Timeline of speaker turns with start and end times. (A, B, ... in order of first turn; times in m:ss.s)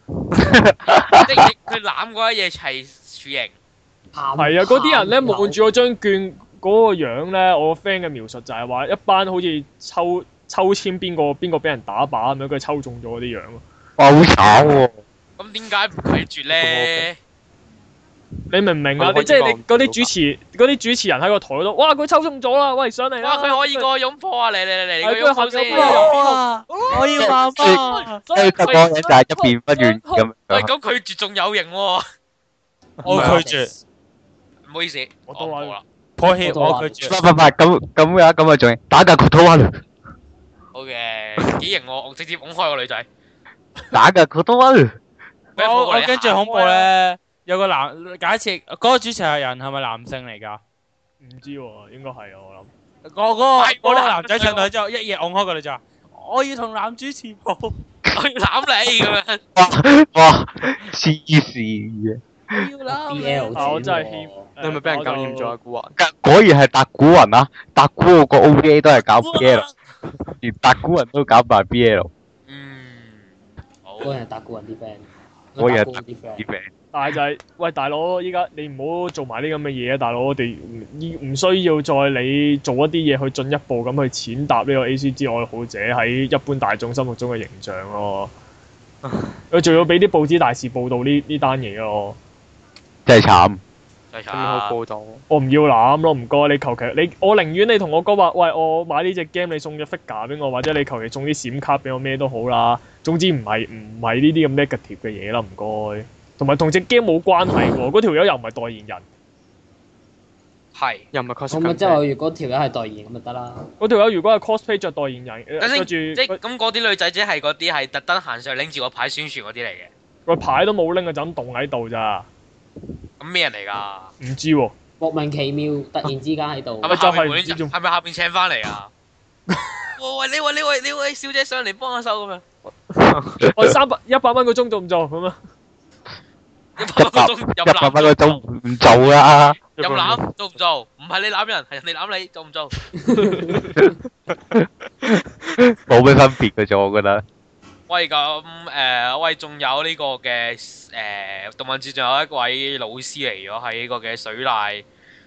0:00.4-0:01.4 A
0:01.1-0:03.5 B
0:04.1-0:05.6 C
0:04.4-0:13.6 D
0:14.0-0:14.9 A
0:15.4-0:17.2 B
0:16.5-0:17.1 E
0:18.5-0:23.9 D
0:19.0-0:20.1 E
0:23.2-0:26.1 B
0:25.0-0:30.2 D
0:25.7-0:28.2 F
0:27.2-0:30.7 A
0:30.5-0:32.0 B
0:33.0-0:33.7 C
0:33.0-0:33.7 F
0:33.1-0:33.4 D
0:34.6-0:35.8 B
0:35.3-0:35.8 D
0:36.2-0:37.2 F
0:36.2-0:37.1 C
0:37.0-0:39.8 A
0:40.7-0:43.1 B
0:43.9-0:44.9 A
0:45.6-0:46.9 B
0:45.6-0:50.6 F
0:51.2-0:52.7 D
0:53.1-0:57.8 F
0:53.6-0:54.7 B
0:58.1-0:59.4 B
0:59.6-1:02.7 A
1:02.5-1:03.9 F
1:02.9-1:04.5 C
1:03.6-1:05.6 D
1:04.6-1:05.9 E
1:06.0-1:09.6 A
1:09.2-1:09.7 F
1:10.4-1:12.1 A
1:12.5-1:13.3 B
1:13.8-1:14.2 B
1:14.0-1:16.5 C
1:15.6-1:16.7 A
1:16.9-1:28.3 D
1:29.5-1:32.2 D
1:33.1-1:33.6 A
1:34.1-1:34.8 B
1:34.3-1:35.2 E
1:35.3-1:49.0 D
1:50.8-1:51.0 B
1:51.1-1:52.0 E
1:51.5-1:53.7 C
1:53.8-1:56.4 D
1:55.6-1:59.9 B
2:00.3-2:02.3 D
2:03.2-2:04.1 B
2:04.2-2:04.7 D
2:05.0-2:07.0 C
2:06.8-2:08.9 B
2:06.9-2:07.7 D
2:10.0-2:12.4 B
2:13.0-2:13.4 E
2:13.4-2:15.4 D
2:16.8-2:18.4 B
2:17.0-2:19.6 A
2:19.8-2:20.2 E
2:19.8-2:22.8 B
2:23.0-2:23.8 C
2:25.9-2:27.2 A
2:27.9-2:34.8 B